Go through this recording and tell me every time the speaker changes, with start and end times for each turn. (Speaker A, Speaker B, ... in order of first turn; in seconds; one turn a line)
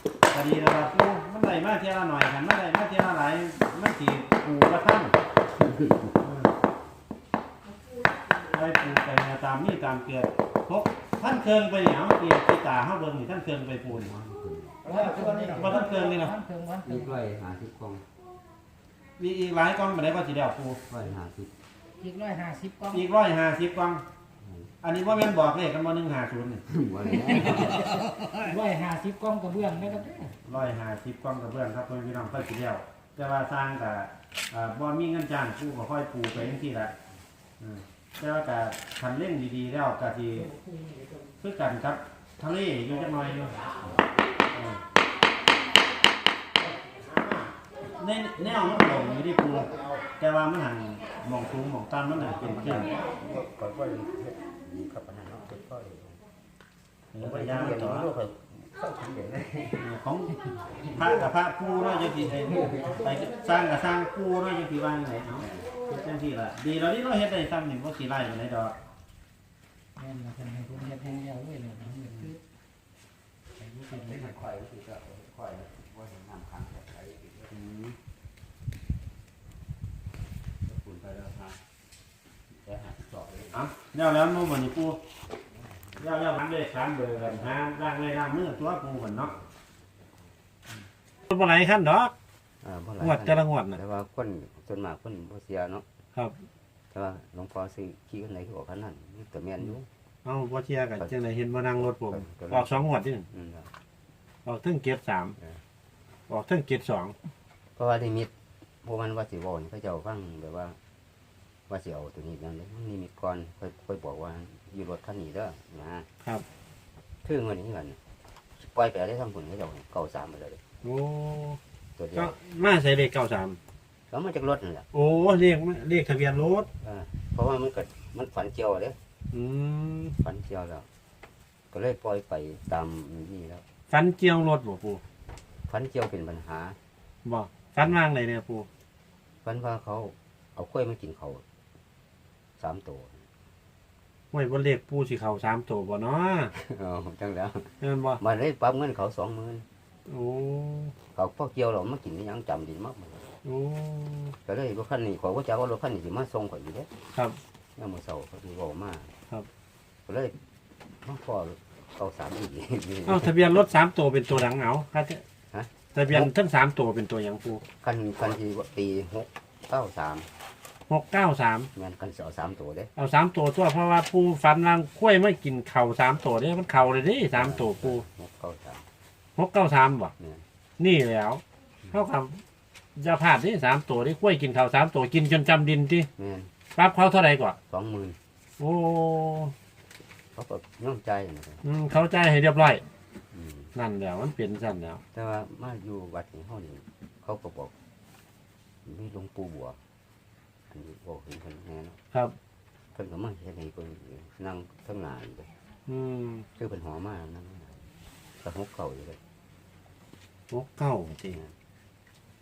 Speaker A: 0.3-5.2
Speaker B: 5.7-6.1
Speaker A: 6.2-6.5
Speaker A: 8.5-14.1
Speaker B: 13.9-15.0
Speaker C: 14.9-17.1
Speaker A: 15.1-16.4
Speaker B: 16.8-18.1
Speaker A: 19.2-20.8
Speaker B: 20.9-21.5
Speaker C: 22.0-23.0
Speaker A: 22.9-24.1
Speaker B: 24.4-24.7
Speaker A: 24.8-26.6
Speaker B: 26.7-27.9
Speaker C: 27.7-30.3
Speaker B: 29.7-30.3
Speaker A: 30.4-36.9
Speaker A: 38.2-40.5
Speaker A: 41.4-43.6
Speaker A: 44.5-44.8
Speaker A: 48.0-53.1
Speaker B: 52.2-56.2
Speaker A: 57.1-58.1
Speaker B: 57.2-59.9
Speaker A: 59.8-60.4
Speaker B: 60.8-61.1
Speaker A: 60.9-68.8
Speaker B: 62.5-63.0
Speaker B: 65.4-65.7
Speaker C: 70.0-72.4
Speaker B: 73.6-77.6
Speaker A: 77.5-78.0
Speaker B: 80.7-81.6
Speaker B: 82.6-83.7
Speaker A: 83.5-85.0
Speaker A: 86.0-89.3
Speaker A: 91.3-92.1
Speaker B: 92.6-95.8
Speaker A: 93.0-93.8
Speaker B: 96.9-99.9
Speaker A: 100.2-103.3
Speaker B: 101.8-102.8
Speaker B: 103.3-103.7
Speaker A: 104.5-105.4
Speaker A: 106.3-107.2
Speaker B: 107.8-108.3
Speaker B: 108.8-110.8
Speaker B: 111.7-116.1
Speaker B: 117.2-118.0
Speaker B: 118.6-120.6
Speaker A: 120.8-121.6
Speaker B: 122.0-122.4
Speaker A: 122.2-123.6
Speaker B: 124.1-124.9
Speaker A: 124.9-126.7
Speaker B: 126.8-129.0
Speaker A: 129.3-130.2
Speaker B: 130.2-130.9
Speaker B: 131.7-133.6
Speaker A: 133.9-135.0
Speaker B: 135.7-136.8
Speaker A: 137.2-138.7
Speaker B: 139.4-141.4
Speaker B: 142.6-143.2
Speaker A: 144.3-146.5
Speaker B: 146.6-149.7
Speaker A: 147.8-148.2
Speaker A: 150.1-150.9
Speaker B: 151.2-153.2
Speaker A: 153.4-154.3
Speaker B: 154.5-156.9
Speaker B: 157.8-159.1
Speaker B: 160.1-160.3
Speaker B: 161.0-163.6
Speaker A: 163.1-165.2
Speaker B: 165.5-166.3
Speaker A: 165.9-167.6
Speaker B: 167.8-170.3
Speaker A: 170.9-171.7
Speaker B: 171.8-172.9
Speaker A: 173.0-178.0
Speaker B: 177.3-178.8
Speaker A: 179.4-180.1
Speaker A: 180.8-182.4
Speaker A: 183.0-186.1
Speaker B: 186.2-186.5
Speaker A: 186.8-187.6
Speaker B: 187.7-188.2
Speaker A: 188.6-189.5
Speaker B: 190.4-191.6
Speaker A: 191.6-192.8
Speaker B: 193.3-193.7
Speaker A: 193.8-195.0
Speaker B: 195.1-197.7
Speaker B: 198.9-199.8
Speaker B: 200.7-202.0
Speaker B: 202.9-205.5
Speaker A: 205.9-206.5
Speaker B: 206.6-207.8
Speaker B: 208.4-209.2
Speaker A: 210.5-211.4